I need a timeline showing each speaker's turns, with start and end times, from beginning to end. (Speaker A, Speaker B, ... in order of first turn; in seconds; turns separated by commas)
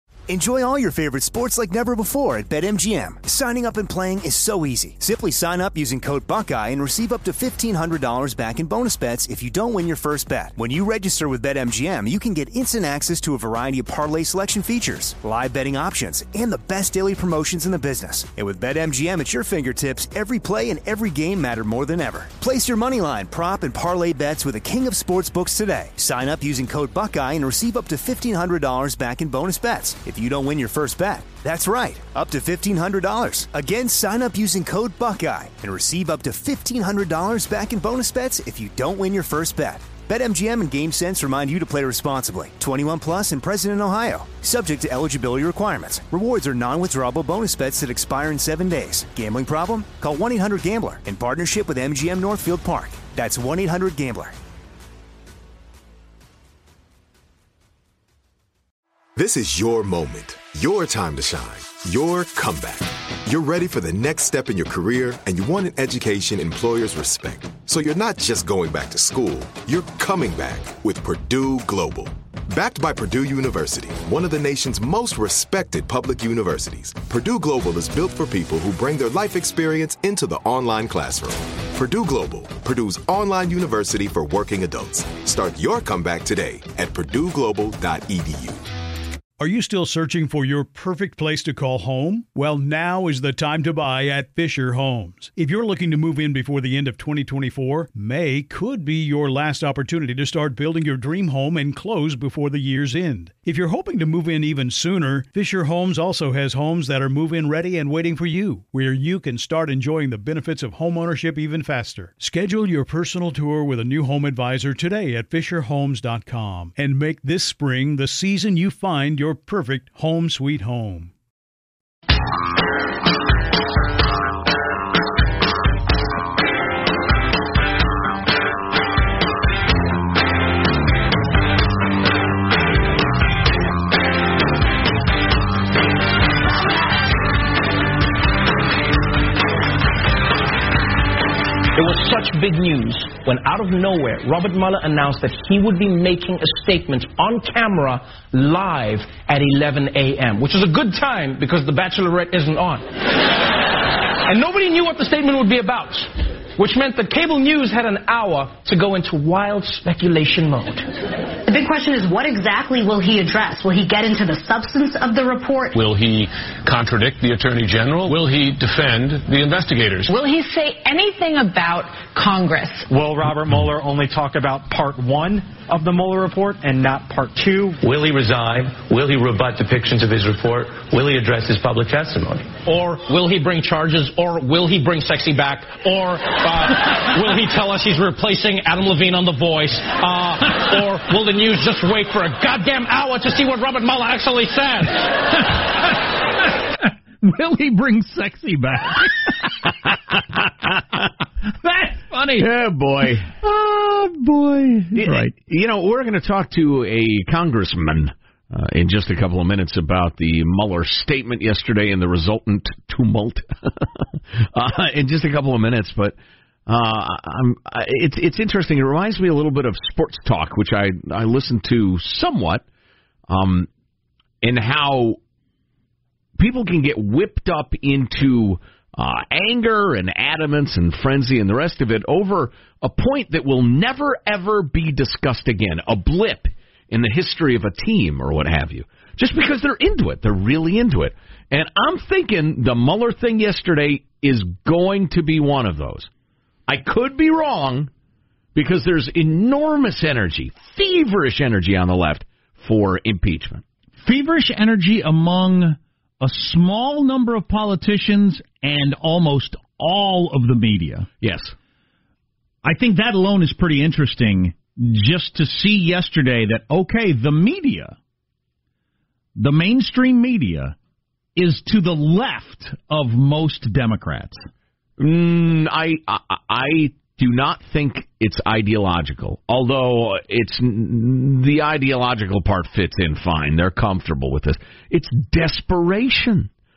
Speaker A: 0.3-54.3, Speaker B: 59.2-88.6, Speaker C: 89.4-121.1, Speaker D: 141.7-153.3, Speaker D: 154.2-160.9, Speaker E: 161.4-165.8, Speaker F: 165.8-170.1, Speaker E: 170.1-172.8, Speaker G: 172.9-177.8, Speaker H: 177.8-182.6, Speaker D: 182.6-195.1, Speaker I: 196.8-199.7, Speaker I: 201.6-202.5, Speaker J: 202.4-203.3, Speaker I: 203.4-205.3, Speaker J: 205.0-214.0, Speaker J: 214.5-216.2, Speaker J: 216.7-222.6, Speaker J: 223.3-223.7, Speaker J: 224.4-225.2, Speaker J: 226.4-246.1, Speaker J: 246.7-247.9, Speaker J: 248.6-253.6, Speaker I: 254.0-261.1, Speaker J: 261.2-261.5, Speaker I: 262.6-268.0, Speaker I: 269.4-270.8, Speaker I: 271.4-274.4, Speaker J: 275.0-286.5